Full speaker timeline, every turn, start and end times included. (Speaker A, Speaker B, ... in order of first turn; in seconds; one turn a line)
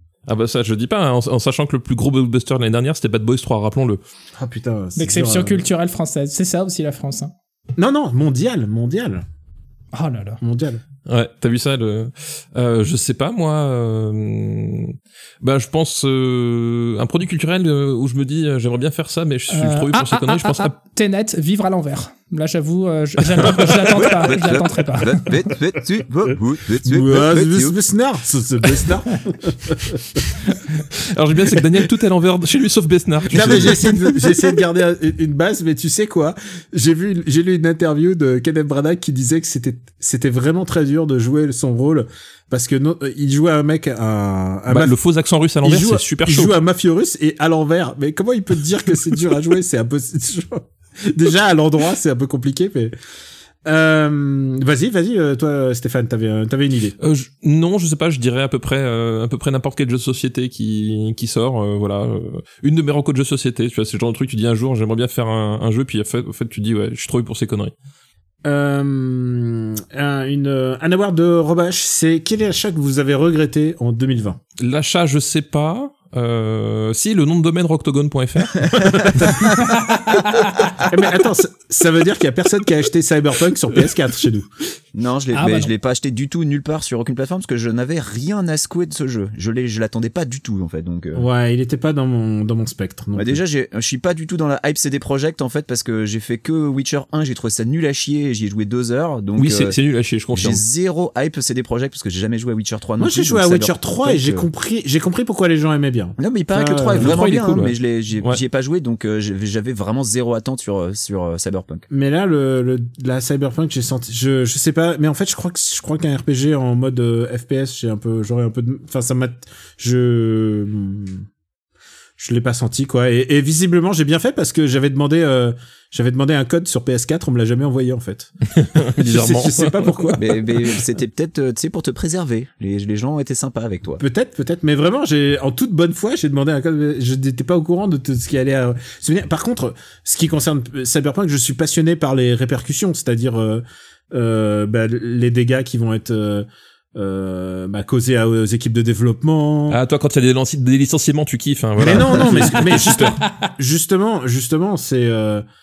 Speaker A: 0.3-4.0
Speaker B: 4.4-5.7
Speaker C: 5.0-7.3
Speaker B: 7.8-9.2
Speaker C: 9.9-10.4
Speaker B: 10.4-10.8
Speaker A: 11.1-20.7
Speaker C: 19.5-25.3
Speaker A: 23.4-24.1
Speaker D: 24.2-27.7
Speaker B: 26.8-30.2
Speaker A: 30.9-33.8
Speaker B: 33.3-45.0
Speaker D: 33.3-33.9
Speaker A: 44.7-46.5
Speaker B: 45.6-52.9
Speaker B: 53.6-57.0
Speaker A: 57.0-67.7
Speaker B: 68.5-74.4
Speaker A: 74.6-79.5
Speaker B: 78.8-79.6
Speaker C: 79.6-80.7
Speaker B: 80.9-84.5
Speaker D: 84.9-91.3
Speaker C: 85.3-85.7
Speaker B: 91.2-93.4
Speaker D: 93.2-99.8
Speaker A: 99.4-100.6
Speaker D: 100.3-104.5
Speaker B: 103.0-107.2
Speaker D: 106.2-111.9
Speaker A: 107.0-108.4
Speaker B: 111.9-121.3
Speaker B: 122.2-131.0
Speaker A: 128.6-130.2
Speaker D: 130.2-134.0
Speaker B: 134.0-149.8
Speaker A: 149.7-153.2
Speaker B: 151.8-155.4
Speaker C: 153.2-153.5